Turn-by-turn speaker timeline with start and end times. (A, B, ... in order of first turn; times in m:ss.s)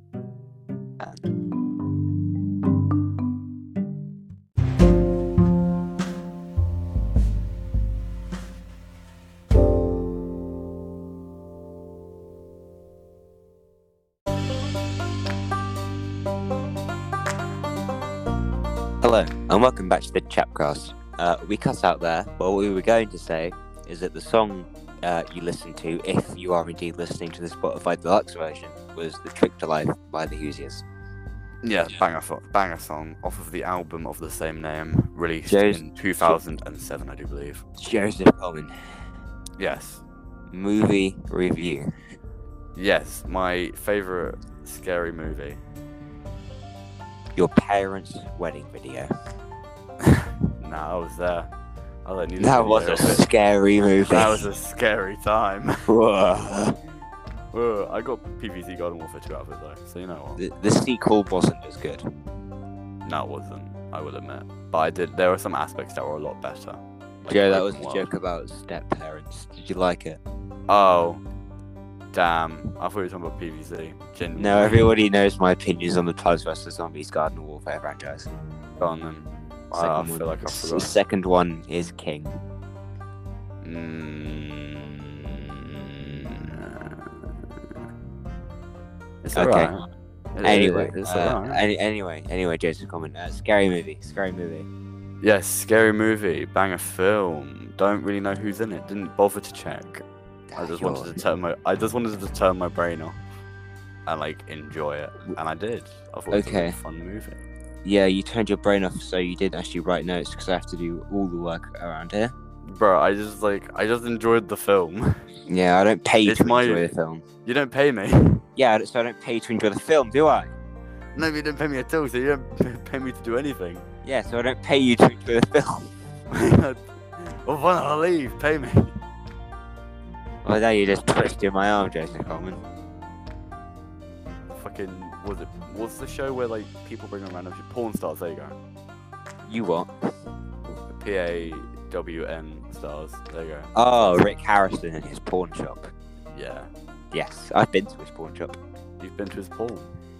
0:19.0-0:30.8 A
0:31.6-0:37.6 B
0:35.5-0:36.4 A
0:37.8-0:39.0 A
0:39.6-0:40.0 B
0:40.5-0:41.9 A
0:42.8-0:45.6 B
0:47.4-0:49.1 A
0:50.0-0:51.5 B
0:52.0-0:53.3 B
0:52.4-0:54.4 A
0:54.1-0:55.8 B
0:55.9-0:56.8 A
0:57.5-1:00.4 B
1:00.4-1:02.0 A
1:03.0-1:08.1 B
1:07.3-1:10.2 A
1:10.7-1:11.2 B
1:12.1-1:14.9 B
1:14.4-1:18.3 A
1:18.8-1:21.0 B
1:19.7-1:22.4 A
1:23.6-1:27.3 B
1:29.2-1:29.8 B
1:29.4-1:29.7 A
1:30.4-1:31.6 B
1:30.4-1:34.7 A
1:35.2-1:40.0 B
1:40.5-1:41.2 A
1:40.6-1:43.2 B
1:44.1-1:47.4 B
1:46.3-1:46.8 A
1:47.8-1:52.3 A
1:52.7-1:55.1 B
1:55.5-1:57.2 A
1:56.2-1:56.9 B
1:57.4-1:58.4 B
1:58.6-2:00.5 A
2:01.2-2:03.8 B
2:04.0-2:06.0 A
2:06.3-2:09.0 B
2:10.4-2:12.6 A
2:14.5-2:18.6 B
2:19.5-2:20.0 A
2:21.0-2:24.2 B
2:23.8-2:25.9 A
2:26.3-2:26.7 B
2:27.1-2:28.6 A
2:29.0-2:29.9 B